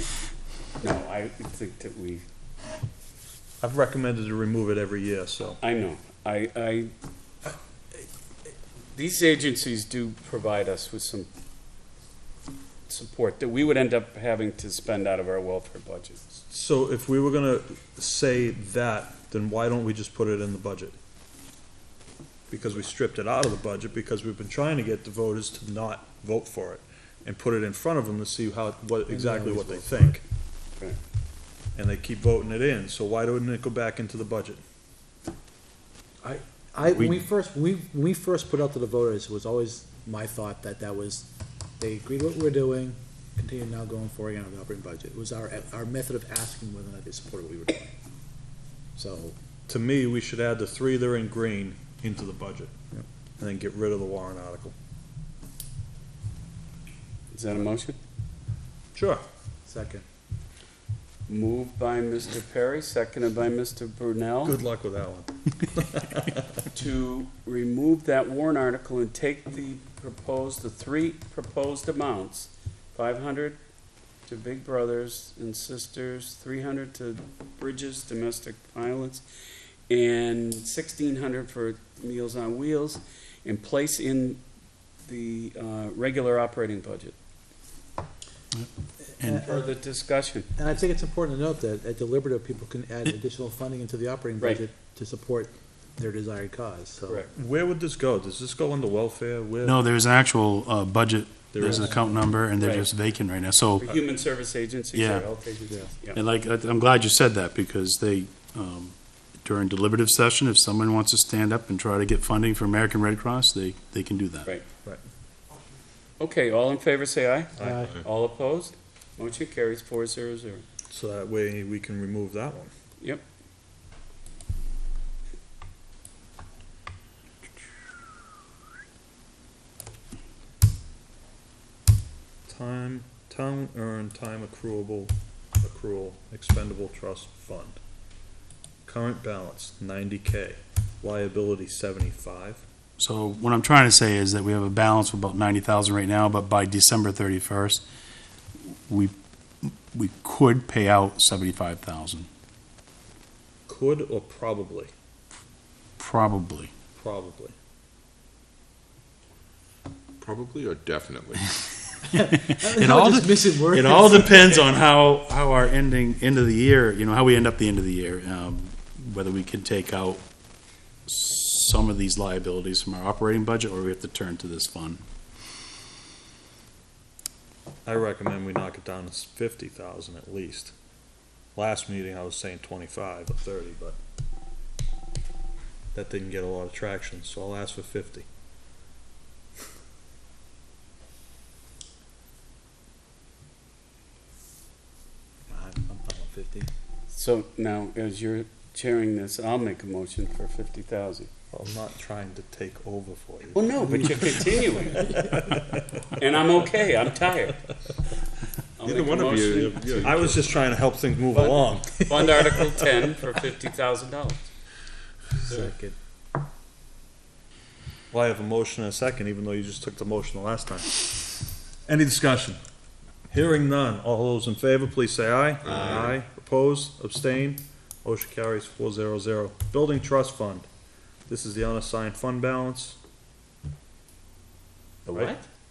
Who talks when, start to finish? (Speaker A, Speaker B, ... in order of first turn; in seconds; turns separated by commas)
Speaker A: 0.8-2.2, Speaker B: 3.6-5.6, Speaker A: 5.6-6.9, Speaker A: 8.9-11.3, Speaker A: 12.9-16.3, Speaker B: 16.5-20.9, Speaker B: 22.5-30.2, Speaker C: 29.1-30.2, Speaker B: 31.8-34.6, Speaker C: 36.2-41.3, Speaker C: 41.8-47.9, Speaker C: 49.0-49.4, Speaker B: 49.7-54.7, Speaker A: 57.3-58.0, Speaker B: 58.9-59.2, Speaker C: 59.7-60.0, Speaker A: 61.3-64.5, Speaker B: 64.4-66.4, Speaker A: 66.7-73.6, Speaker A: 74.3-79.2, Speaker A: 79.9-84.4, Speaker A: 85.0-87.1, Speaker D: 88.5-89.5, Speaker C: 89.2-89.7, Speaker A: 89.4-90.5, Speaker C: 90.6-97.2, Speaker A: 97.0-97.3, Speaker B: 97.3-99.8, Speaker D: 99.6-103.8, Speaker B: 101.5-102.0, Speaker C: 101.6-101.9, Speaker A: 102.6-102.9, Speaker A: 103.8-106.2, Speaker D: 104.9-105.3, Speaker D: 106.1-114.5, Speaker A: 116.2-120.6, Speaker B: 117.6-117.8, Speaker C: 117.6-118.0, Speaker B: 120.9-122.7, Speaker B: 132.4-137.8, Speaker B: 138.8-142.6, Speaker D: 143.0-147.8, Speaker D: 148.6-152.3, Speaker B: 153.7-154.9, Speaker D: 156.0-156.7, Speaker B: 156.9-157.5, Speaker E: 160.2-161.4, Speaker C: 162.1-164.5, Speaker D: 162.5-170.2, Speaker D: 171.1-175.0, Speaker B: 177.8-180.7, Speaker B: 181.5-184.0, Speaker B: 185.9-188.2, Speaker C: 195.5-196.7, Speaker A: 197.1-201.3, Speaker B: 201.5-206.0, Speaker A: 203.5-205.2, Speaker A: 206.2-207.6, Speaker A: 208.8-210.3, Speaker E: 208.8-210.8, Speaker B: 210.0-212.6, Speaker A: 211.3-214.5, Speaker C: 215.4-215.9, Speaker B: 218.1-222.6, Speaker B: 223.3-230.7, Speaker E: 225.7-226.1, Speaker B: 231.3-233.0, Speaker A: 235.1-235.4